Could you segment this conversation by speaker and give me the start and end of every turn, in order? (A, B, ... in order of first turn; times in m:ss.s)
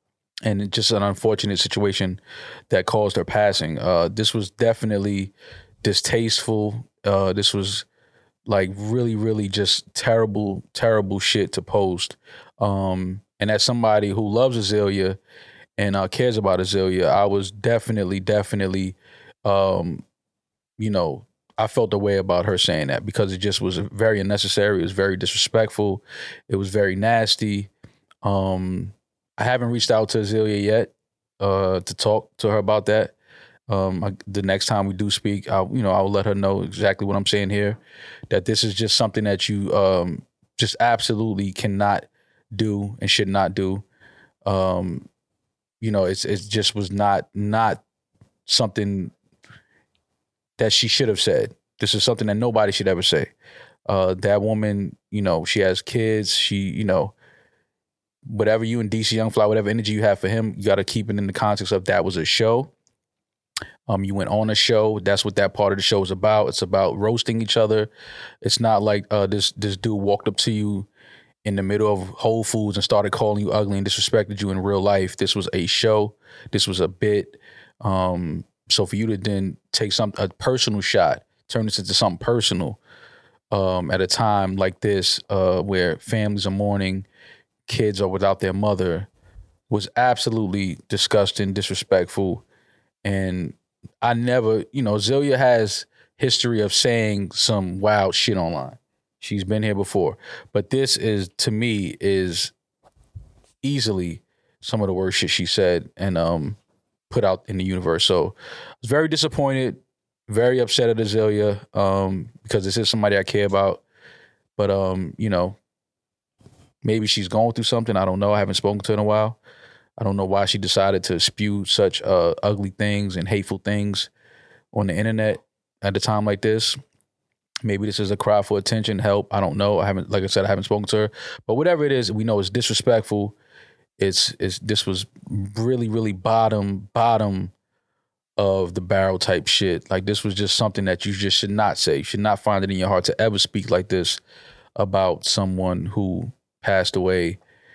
0:00.4-0:07.8 A
0:08.4-0:15.2 A
0:15.8-0:20.0 A
0:20.8-0:27.7 A
0:28.2-0:33.1 A
0:33.7-0:43.8 A
0:44.4-0:45.1 A
0:45.8-0:47.8 A
0:48.5-0:49.1 A
0:50.6-0:53.3 A
0:53.9-0:57.1 A
0:58.2-1:02.7 A
1:03.9-1:07.9 A
1:08.4-1:10.9 A
1:11.4-1:22.8 A
1:23.5-1:27.1 A
1:27.7-1:29.1 A
1:29.7-1:32.4 A
1:33.0-1:42.5 A
1:43.6-1:46.6 A
1:47.1-1:53.8 A
1:54.6-1:55.6 A
1:56.8-1:59.4 A
2:00.0-2:04.1 A
2:04.7-2:06.8 A
2:07.6-2:13.3 A
2:14.0-2:17.5 A
2:18.4-2:24.2 A
2:24.8-2:27.4 A